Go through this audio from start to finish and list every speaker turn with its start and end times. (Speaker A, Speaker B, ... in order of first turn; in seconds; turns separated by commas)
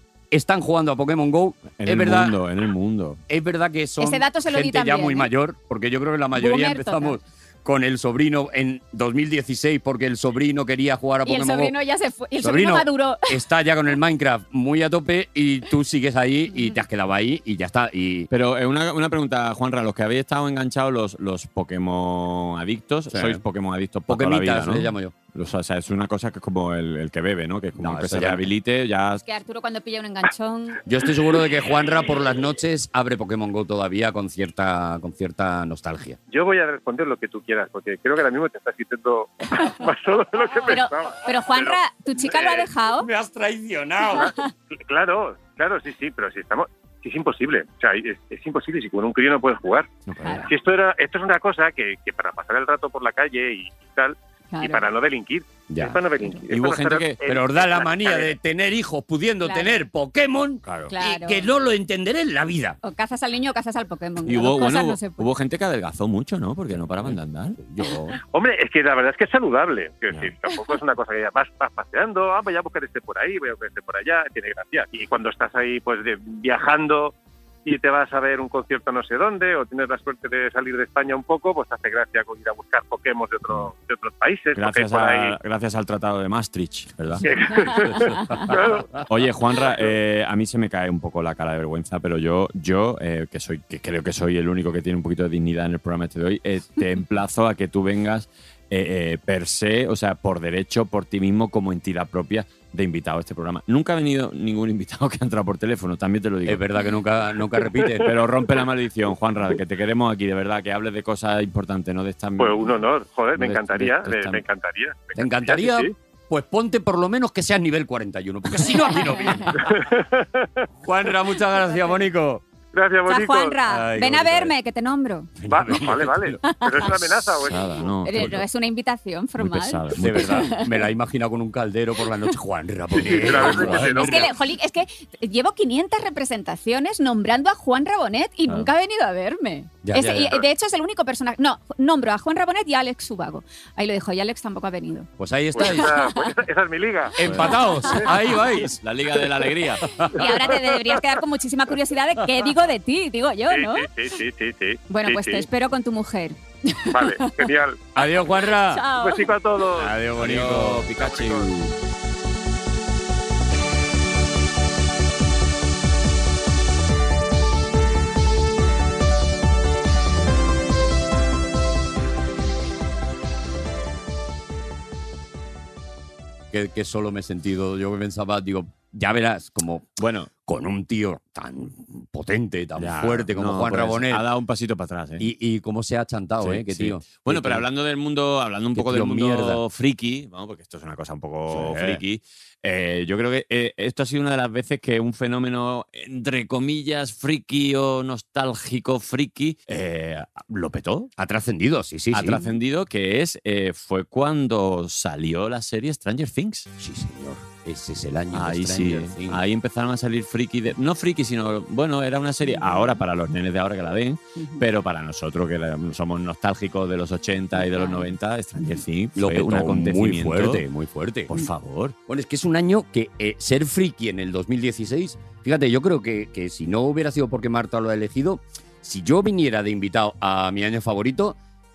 Speaker A: 0.3-2.4, Speaker B: 1.8-3.2, Speaker A: 3.3-11.7, Speaker C: 4.0-5.3, Speaker C: 6.4-7.2, Speaker C: 11.2-13.4, Speaker A: 12.4-18.3, Speaker C: 16.5-16.8, Speaker B: 18.3-29.2, Speaker A: 23.1-23.4, Speaker A: 24.1-25.1, Speaker A: 27.8-28.5, Speaker C: 29.2-30.8, Speaker A: 30.9-36.2, Speaker D: 36.3-41.8, Speaker C: 40.7-43.1, Speaker D: 42.3-42.6, Speaker A: 42.5-44.3, Speaker C: 44.1-44.5, Speaker D: 44.2-49.9, Speaker B: 50.1-50.5, Speaker C: 50.2-50.5, Speaker D: 50.5-58.3, Speaker C: 54.5-54.9, Speaker A: 55.7-56.0, Speaker B: 56.5-57.2, Speaker A: 57.2-62.8, Speaker C: 59.4-59.8, Speaker C: 60.9-61.5, Speaker C: 62.8-65.3, Speaker B: 64.3-67.6, Speaker A: 67.0-68.1, Speaker D: 68.3-77.1, Speaker D: 77.7-85.4, Speaker B: 84.5-87.3, Speaker D: 87.2-89.0, Speaker A: 88.3-88.8, Speaker B: 89.0-106.6, Speaker A: 106.5-108.2, Speaker B: 108.0-112.8, Speaker D: 112.4-115.9, Speaker B: 113.4-114.4, Speaker A: 115.2-119.8, Speaker D: 119.5-120.7, Speaker A: 120.8-122.4, Speaker D: 122.7-123.6, Speaker C: 123.1-125.3, Speaker A: 123.7-124.5, Speaker A: 125.4-127.2, Speaker D: 125.5-127.9, Speaker C: 126.4-126.9, Speaker B: 127.4-128.4, Speaker C: 128.0-130.7, Speaker B: 129.4-130.4, Speaker A: 130.0-134.3, Speaker D: 132.9-134.3, Speaker C: 133.1-146.3, Speaker A: 139.8-140.4, Speaker A: 145.2-145.9, Speaker D: 145.6-148.0, Speaker A: 147.2-148.8, Speaker B: 147.2-149.9, Speaker C: 147.4-148.1, Speaker A: 149.8-150.5, Speaker C: 150.1-153.9, Speaker D: 150.5-151.0, Speaker D: 153.5-155.5, Speaker C: 154.9-157.5, Speaker D: 156.9-158.1, Speaker A: 157.9-158.9, Speaker C: 158.7-159.3, Speaker D: 158.9-160.0, Speaker A: 159.8-161.7, Speaker B: 160.0-161.5, Speaker D: 160.9-161.5, Speaker A: 176.5-179.9, Speaker B: 180.0-180.3, Speaker A: 180.5-184.3, Speaker B: 182.8-185.3, Speaker A: 185.2-187.7, Speaker B: 186.4-201.1, Speaker A: 188.7-189.6, Speaker A: 191.5-192.0, Speaker A: 201.2-202.4, Speaker B: 202.1-206.7, Speaker A: 206.8-209.4, Speaker B: 208.3-220.7, Speaker C: 212.4-213.0, Speaker C: 214.4-214.6, Speaker C: 217.6-218.1, Speaker A: 219.2-221.3, Speaker B: 221.3-221.9, Speaker A: 222.1-231.4